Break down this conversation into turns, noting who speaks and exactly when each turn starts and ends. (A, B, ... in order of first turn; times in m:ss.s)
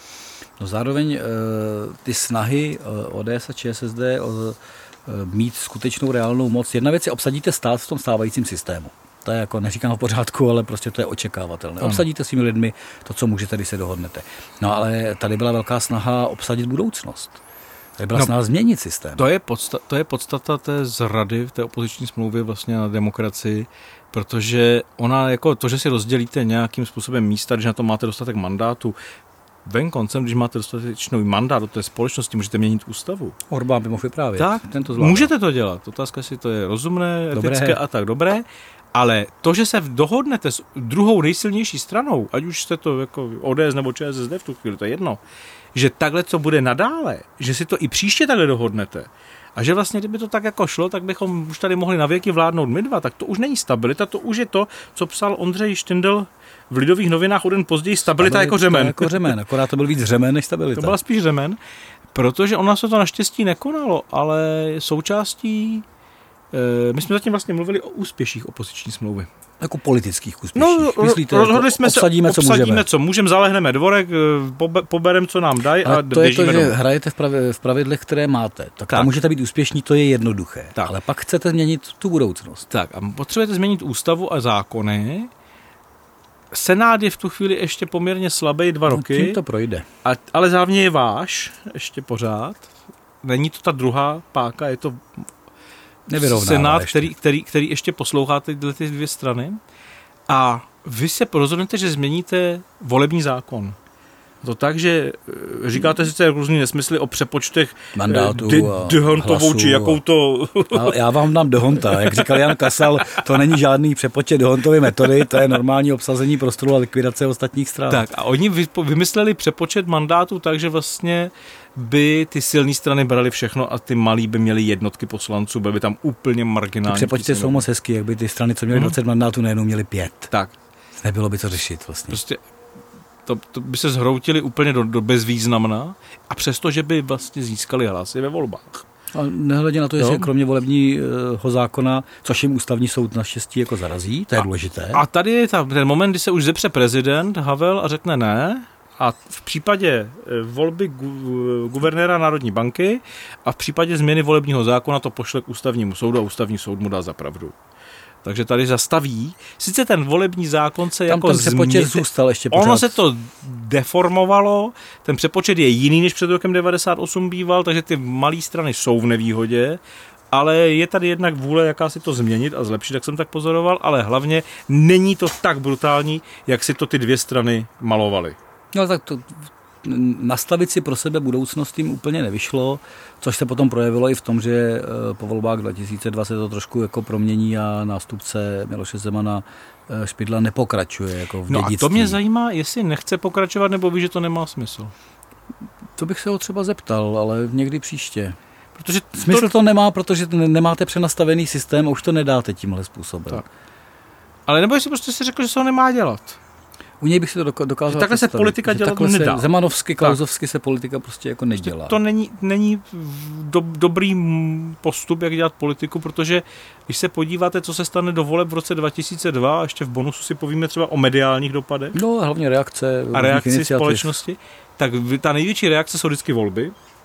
0:00.6-0:17.4 A
0:18.0-0:19.2 A
0:19.2-0:29.0 B
0:29.6-0:33.4 B
0:33.5-0:35.3 A
0:34.4-0:45.2 B
0:37.3-0:37.8 A
0:45.8-0:59.3 B
0:58.2-1:01.0 A
1:00.8-1:01.6 B
1:02.1-1:05.8 B
1:06.5-1:09.3 B
1:09.6-1:12.9 A
1:10.6-1:16.8 B
1:15.8-1:22.7 A
1:22.7-1:25.3 B
1:26.5-1:29.4 B
1:28.9-1:29.9 A
1:30.0-1:32.7 B
1:33.2-1:35.0 B
1:36.1-1:37.1 A
1:36.2-1:39.6 B
1:40.3-1:43.8 B
1:44.4-1:51.0 B
1:47.9-1:50.0 A
1:50.7-1:58.1 A
1:51.8-1:52.7 B
1:57.9-2:07.7 B
2:06.9-2:10.3 A
2:11.0-2:12.2 A
2:12.1-2:12.4 B
2:13.3-2:18.8 B
2:19.1-2:25.0 A
2:20.0-2:20.3 B
2:24.9-2:37.6 B
2:38.2-2:49.8 B
2:41.1-2:43.0 A
2:50.3-2:58.4 B
2:58.7-3:12.2 A
3:11.5-3:14.9 B
3:16.0-3:18.4 A
3:18.8-3:19.5 B
3:19.1-3:23.4 A
3:24.5-3:26.4 B
3:27.0-3:32.0 A
3:27.9-3:30.2 B
3:31.6-3:42.0 B
3:42.0-3:44.2 A
3:43.1-3:46.7 B